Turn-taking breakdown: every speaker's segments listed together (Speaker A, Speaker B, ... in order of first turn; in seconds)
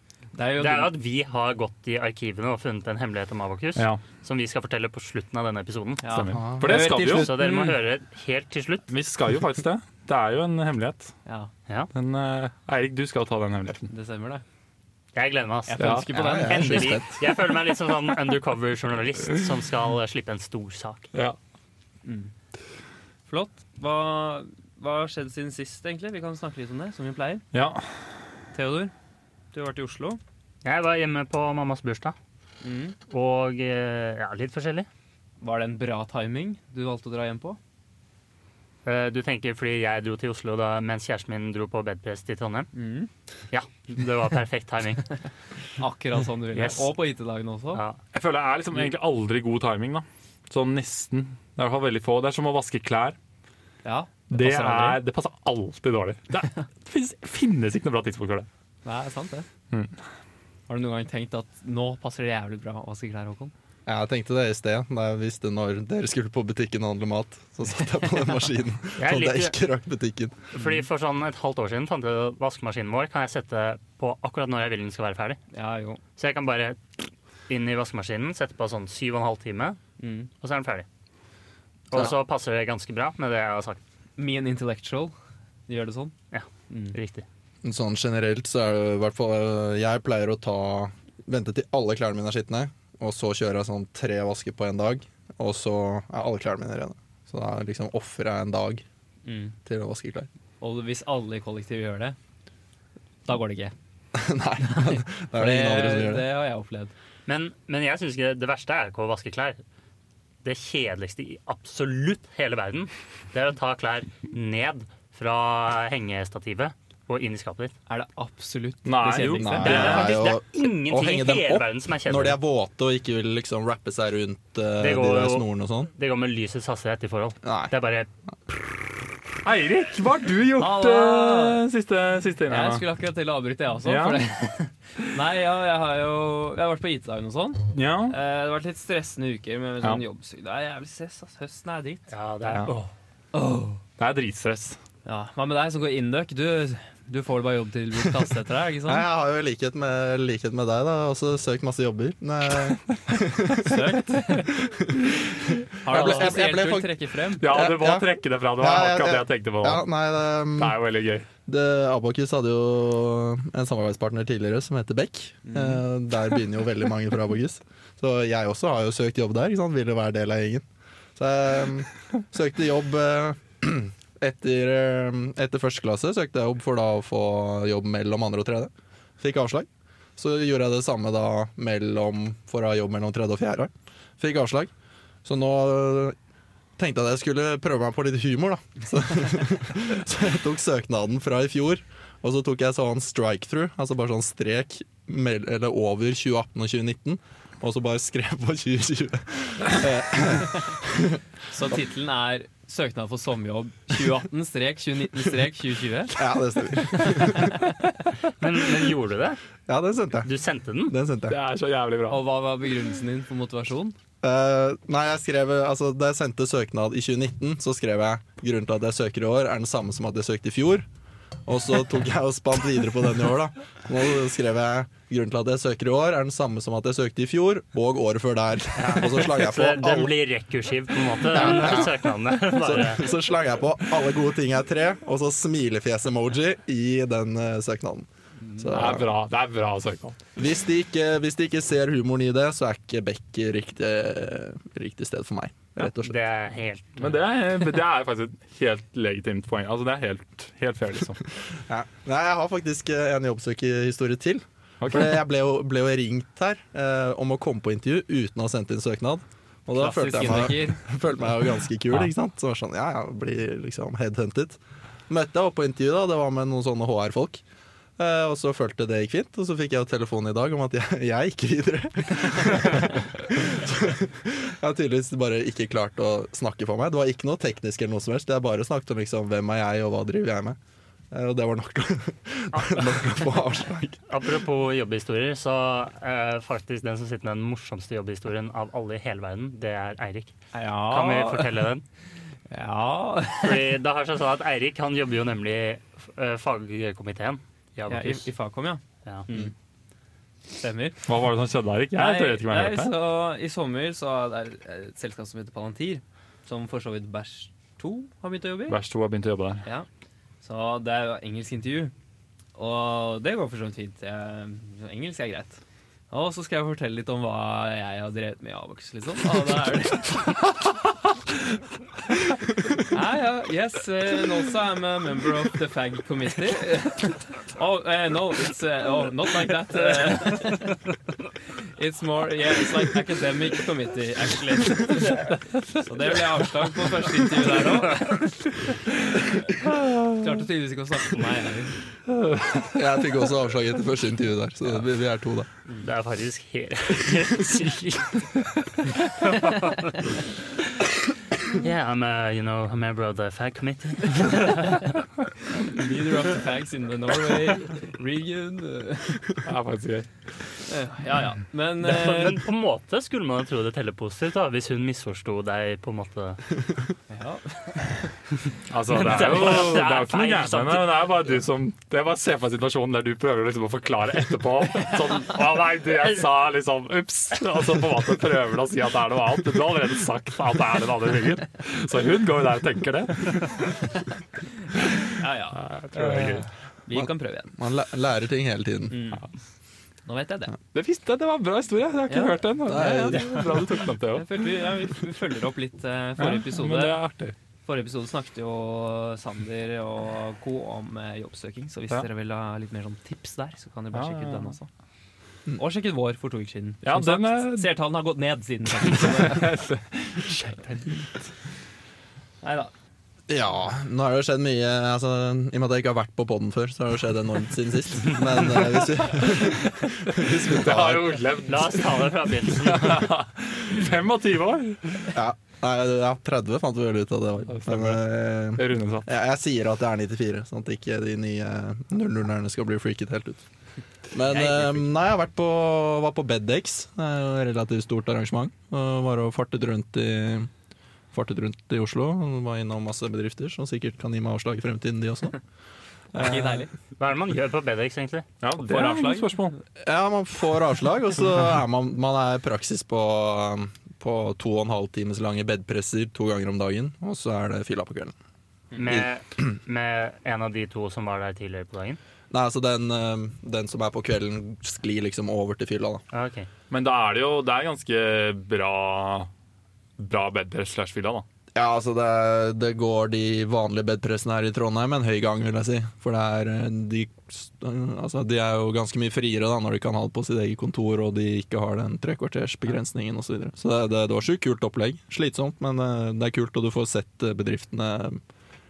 Speaker A: 0.3-0.9, 6.0-7.8, 13.9-14.4, 15.7-17.0, 22.0-22.3, 23.3-27.4, 28.5-28.9, 29.5-30.2, 32.6-33.0, 35.4-37.6, 42.7-43.1, 45.8-47.8, 53.8-55.0, 58.8-59.5, 60.7-63.5, 75.5-76.0, 80.0-80.3, 84.2-85.1, 85.7-86.1, 86.7-87.0, 99.2-99.5, 100.6-102.2, 103.2-103.7, 104.7-106.9, 117.9-120.0, 130.6-131.6, 132.4-142.1, 143.3-143.8, 145.1-149.1, 153.5-154.5, 155.8-157.5, 165.4-165.8, 201.5-207.7, 212.1-213.9, 259.7-260.8, 290.5-291.6, 292.5-293.8, 297.9-299.5, 300.5-301.1, 301.9-308.8, 310.4-311.9, 312.5-320.4, 322.7-330.8, 331.8-338.3, 340.1-341.8, 355.6-359.4, 360.7-362.4, 367.1-368.1, 385.1-387.5, 388.9-389.2, 390.0-390.5, 392.1-397.0, 397.6-404.7, 405.6-409.6, 410.3-411.0, 412.4-412.7, 434.3-434.9, 446.1-446.7, 448.6-449.4
Speaker B: 0.6-8.9, 15.1-21.1, 30.6-32.1, 33.1-34.9, 38.8-42.7, 43.5-45.1, 46.5-46.9, 47.7-48.0, 69.0-69.6, 70.5-75.4, 76.2-76.8, 77.5-79.8, 80.4-80.8, 81.9-83.8, 86.3-87.2, 107.3-109.6, 110.4-117.7, 119.6-122.4, 124.8-125.4, 125.9-128.1, 142.1-142.9, 208.4-209.4, 210.2-210.9, 228.8-233.1, 245.8-247.1, 282.5-283.1, 284.1-290.4, 290.9-291.8, 293.4-298.3, 345.8-350.8, 351.4-355.0, 361.8-366.4, 368.9-371.0, 421.5-423.1, 447.0-448.3, 458.8-462.0, 466.1-466.5
Speaker C: 3.8-4.0, 6.1-7.3, 8.9-11.1, 11.9-13.9, 15.8-16.1, 27.5-27.9, 48.1-53.1, 54.3-58.5, 118.8-120.2, 129.4-132.8, 133.8-134.2, 137.7-138.1, 144.0-144.8, 157.4-159.8, 160.6-161.2, 211.3-212.2, 238.7-240.2, 247.0-251.2, 254.8-255.2, 301.1-302.9, 308.7-309.6, 342.1-342.8, 359.4-360.1, 368.7-383.8, 385.5-386.4, 390.7-394.5, 396.2-397.4, 403.9-404.5, 406.8-407.7, 408.9-410.4, 420.1-425.1, 427.5-428.0, 428.5-429.1, 448.4-449.6, 466.7-469.3, 470.0-471.2
Speaker D: 6.3-6.8, 16.1-17.5, 63.9-70.5, 87.6-98.8, 99.7-100.3, 104.1-106.3, 119.4-125.9, 127.4-127.7, 148.9-154.0, 154.5-156.9, 157.4-160.8, 161.5-170.6, 171.2-184.7, 185.2-186.1, 186.8-201.2, 206.2-207.6, 209.7-210.3, 210.9-211.4, 214.2-220.9, 221.4-230.1, 231.2-239.1, 240.4-246.2, 251.7-267.4, 268.0-280.6, 281.1-284.0, 342.7-345.5, 386.9-389.0, 392.6-393.6, 413.3-421.2, 425.1-433.4, 434.1-440.5, 441.1-445.4, 446.1-446.6, 449.8-458.1, 462.3-466.0, 471.5-488.2